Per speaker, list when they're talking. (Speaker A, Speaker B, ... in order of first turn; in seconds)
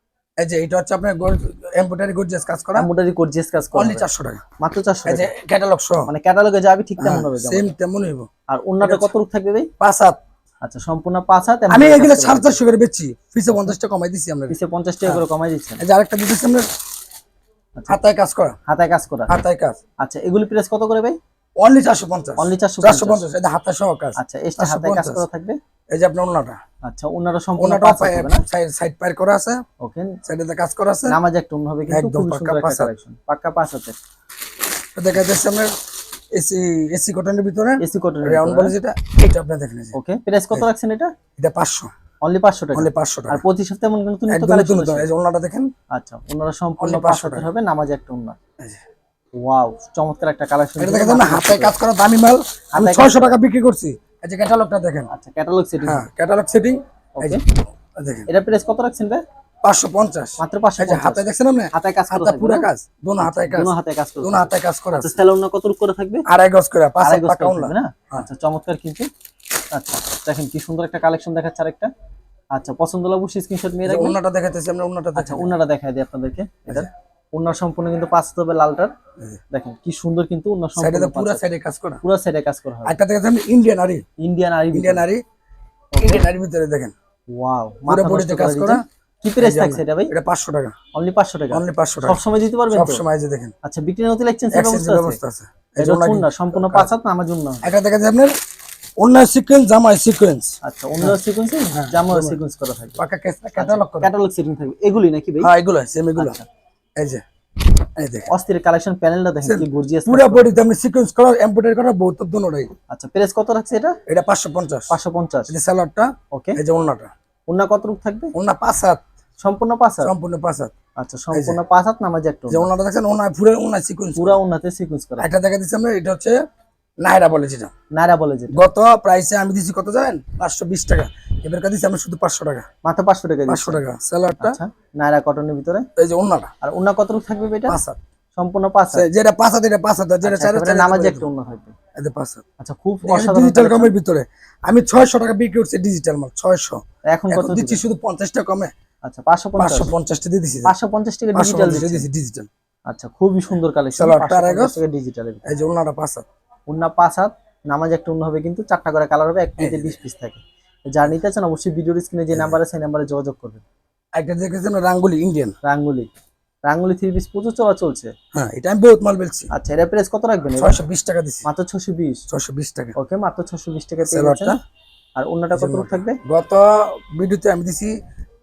Speaker A: 0.4-2.9, 3.7-4.4, 5.1-6.1, 7.0-8.3, 8.8-9.1, 9.8-10.2, 11.7-14.5, 15.8-16.6, 17.9-18.6, 19.3-19.8, 21.6-25.2, 25.9-26.6, 27.6-29.6, 30.2-31.2, 31.9-32.9, 35.0-35.7, 36.4-40.0, 41.4-41.9, 42.8-43.4, 44.3-45.7, 46.8-47.5, 50.8-55.1, 55.8-58.3, 59.6-63.7, 64.2-65.2, 66.2-68.3, 73.9-75.5, 80.8-82.0, 82.9-84.0, 84.7-85.2, 86.0-86.9, 87.9-88.8, 89.4-90.8, 91.5-92.2, 92.7-93.5, 94.5-96.9, 97.6-98.3, 99.0-101.1, 101.7-102.4, 103.0-104.1, 105.4-106.4, 108.0-108.3, 109.5-112.7, 114.1-114.9, 115.5-117.1, 118.3-119.0, 120.0-120.7, 121.3-121.6, 122.5-124.4, 125.2-126.4, 127.0-127.7, 128.5-132.7, 133.5-134.6, 136.0-136.5, 137.7-138.0, 138.9-141.2, 142.0-142.4, 143.1-146.8, 147.3-148.7, 149.6-150.7, 151.3-152.5, 154.0-154.8, 155.4-156.2, 159.6-160.0, 164.2-165.5, 168.3-169.5, 170.6-171.5, 172.3-172.9, 174.0-174.6, 175.5-177.9
Speaker B: 2.8-4.1, 4.6-5.3, 6.1-7.7, 8.5-9.7, 10.6-12.6, 14.5-15.8, 18.7-19.3, 20.0-21.2, 22.4-23.2, 24.2-25.6, 26.8-28.4, 29.8-30.2, 31.1-34.0, 37.8-38.8, 40.0-41.1, 42.2-45.1, 45.9-48.4, 49.4-51.7, 52.8-53.4, 55.1-56.1, 58.3-59.2, 60.4-62.7, 63.2-66.2, 67.0-69.1, 69.7-71.9, 72.5-74.2, 75.2-78.9, 79.5-81.4, 82.0-83.0, 84.2-85.0, 85.9-86.2, 87.3-90.1, 90.9-93.0, 93.6-95.2, 95.8-97.7, 100.6-103.0, 103.6-105.5, 106.2-106.5, 108.3-110.5, 112.9-114.0, 114.9-115.5, 116.3-116.6, 117.5-118.3, 119.4-120.1, 121.0-122.7, 124.2-125.3, 127.9-128.6, 132.8-133.8, 134.4-135.9, 136.6-137.8, 138.4-139.1, 140.2-141.7, 142.6-143.9, 147.1-147.8, 149.1-149.9, 150.6-152.1, 152.9-155.4, 156.7-163.6, 165.6-166.1, 166.7-168.1, 169.5-170.8, 171.5-172.2, 173.0-174.6, 175.2-176.2